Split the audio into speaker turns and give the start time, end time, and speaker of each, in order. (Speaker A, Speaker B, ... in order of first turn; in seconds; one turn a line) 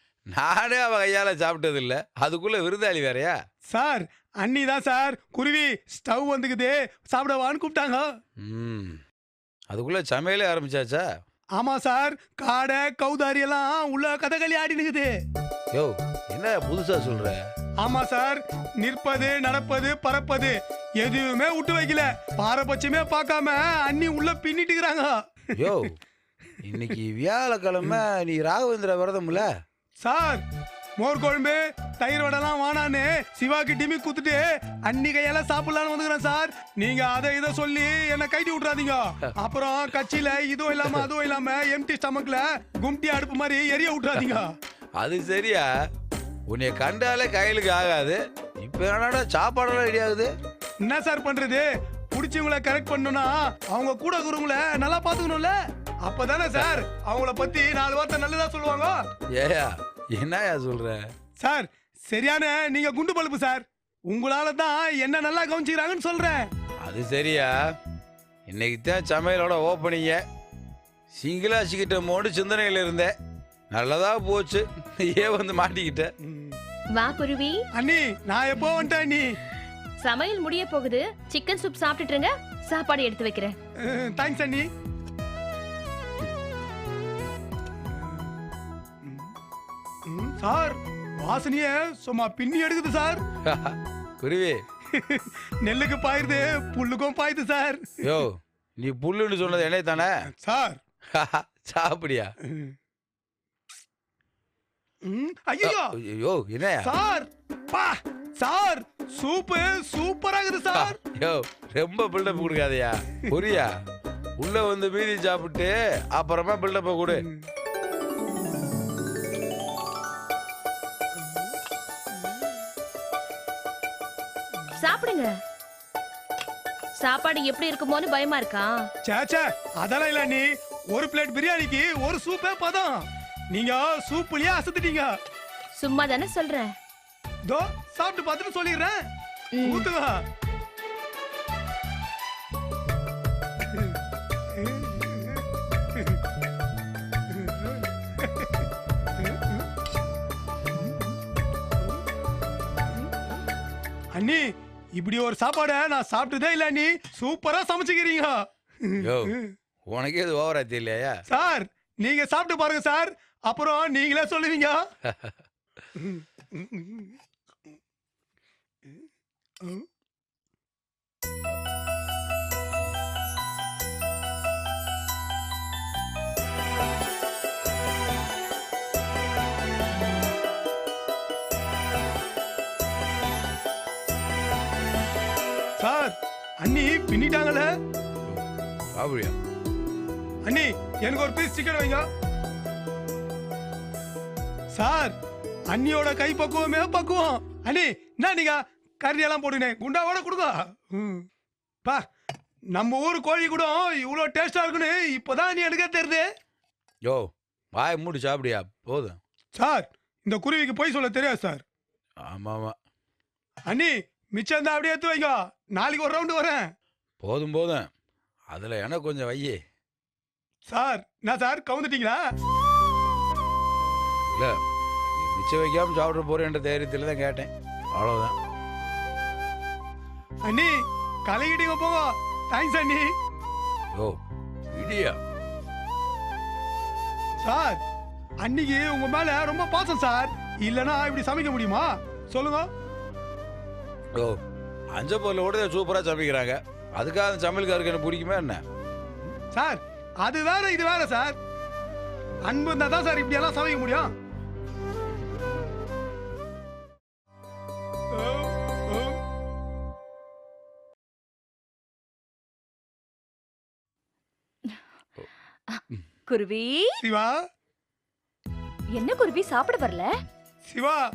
Speaker A: 0.3-3.3
Speaker B: 3.7-8.1
Speaker A: 8.4-9.0
Speaker A: 9.7-11.1
Speaker B: 11.6-15.1
Speaker A: 15.7-17.4
Speaker B: 17.8-25.1
Speaker A: 25.6-25.9
Speaker A: 26.6-29.5
Speaker B: 30.0-30.4
Speaker B: 31.0-44.5
Speaker A: 45.0-45.7
Speaker A: 46.5-50.3
Speaker B: 50.8-59.0
Speaker A: 59.4-61.0
Speaker B: 61.4-66.4
Speaker A: 66.8-67.5
Speaker A: 68.5-70.2
Speaker A: 71.1-73.1
Speaker A: 73.7-76.1
Speaker B: 76.2-76.6
Speaker C: 76.9-77.6
Speaker B: 77.8-79.4
Speaker C: 80.0-83.5
Speaker B: 83.8-84.6
Speaker B: 89.0-89.3
Speaker B: 90.1-93.2
Speaker A: 93.5-94.6
Speaker B: 94.9-97.8
Speaker A: 98.0-100.2
Speaker B: 100.3-100.8
Speaker A: 101.1-102.3
Speaker B: 102.5-102.7
Speaker B: 105.0-105.9
Speaker A: 105.6-106.9
Speaker B: 106.8-111.0
Speaker A: 110.8-113.7
Speaker A: 114.4-117.2
Speaker C: 124.8-125.3
Speaker C: 127.0-128.9
Speaker B: 129.0-135.1
Speaker C: 135.8-136.7
Speaker B: 137.5-139.0
Speaker C: 139.5-139.9
Speaker B: 139.6-140.2
Speaker B: 144.6-145.1
Speaker B: 154.2-154.4
Speaker B: 154.9-159.5
Speaker A: 159.1-159.3
Speaker A: 159.9-161.2
Speaker B: 161.3-164.8
Speaker B: 166.0-167.1
Speaker B: 185.8-187.7
Speaker A: 188.9-189.3
Speaker B: 190.4-192.0
Speaker B: 194.7-195.2
Speaker B: 195.7-201.2
Speaker B: 202.7-206.2
Speaker A: 207.1-209.2
Speaker B: 209.5-211.6
Speaker A: 212.2-212.7
Speaker B: 213.7-216.6
Speaker A: 217.2-217.9
Speaker A: 218.5-219.6
Speaker B: 220.7-222.2
Speaker A: 225.2-228.3
Speaker B: 230.4-230.7
Speaker B: 231.2-233.1
Speaker A: 234.7-235.2
Speaker B: 237.4-237.8
Speaker B: 238.4-242.7
Speaker A: 244.9-248.6
Speaker B: 249.5-251.3
Speaker B: 252.5-254.1
Speaker B: 258.1-259.2
Speaker D: 265.7-267.0
Speaker B: 267.0-267.4
Speaker D: 268.9-270.1
Speaker B: 270.6-271.0